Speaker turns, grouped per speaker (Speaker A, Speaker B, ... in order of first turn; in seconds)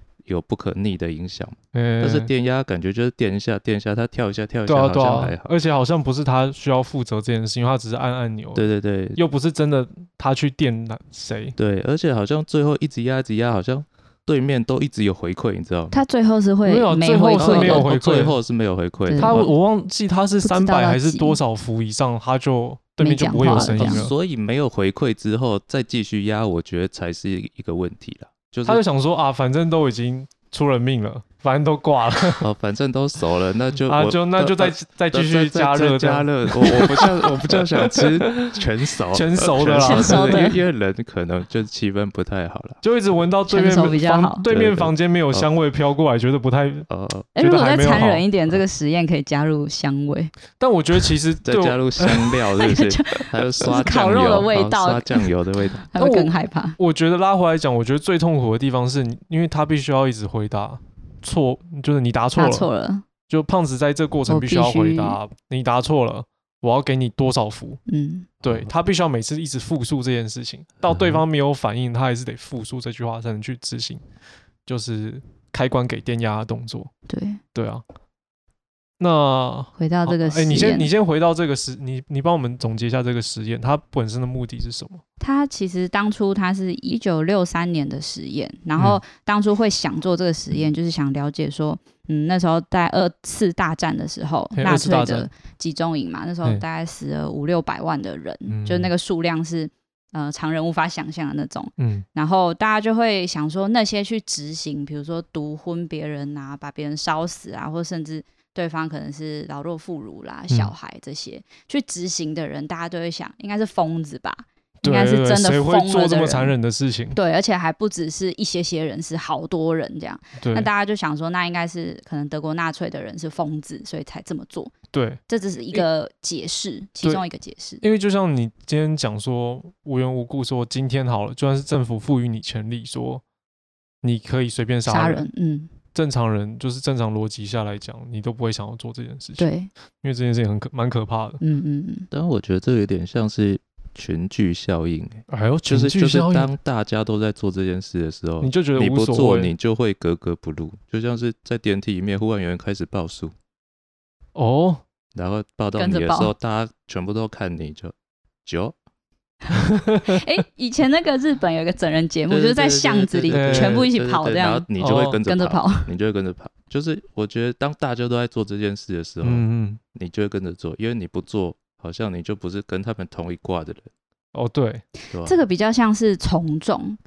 Speaker A: 0.2-5.5, 8.6-9.2, 11.6-16.0, 17.4-19.5, 23.5-28.8, 32.4-42.8, 44.5-45.5, 46.9-47.3, 51.5-55.9, 70.9-71.2, 142.1-153.3, 155.2-158.8, 162.3-173.9, 175.1-175.4
Speaker B: 1.7-2.3, 4.7-11.6, 16.6-18.4, 19.2-24.1, 28.6-32.5, 33.9-38.6, 39.1-40.5, 42.8-48.2, 50.6-52.1, 56.0-62.7, 63.3-67.8, 68.4-74.0, 74.7-76.9, 77.5-77.8, 79.0-85.0, 94.6-95.3, 98.5-98.9, 101.8-102.0, 114.8-117.2, 120.4-120.7, 124.9-125.2, 127.8-133.2, 134.0-135.3, 135.9-139.5, 140.0-141.4, 145.3-146.5, 148.4-149.5, 154.3-154.8, 159.5-160.2, 163.3-163.9, 164.8-165.2, 169.2-169.8, 174.3-174.8
Speaker C: 15.9-17.9, 19.1-19.5, 20.4-21.4, 23.0-24.0, 39.8-40.6, 43.5-44.4, 47.4-50.3, 52.6-55.3, 55.9-56.8, 62.4-63.0, 64.3-65.2, 67.9-68.3, 77.1-77.4, 79.8-80.9, 85.2-116.5, 117.2-124.7, 125.3-127.8, 134.9-135.7, 139.4-139.7, 141.4-142.1, 155.8-156.3, 160.1-164.7, 165.2-165.9, 175.2-177.0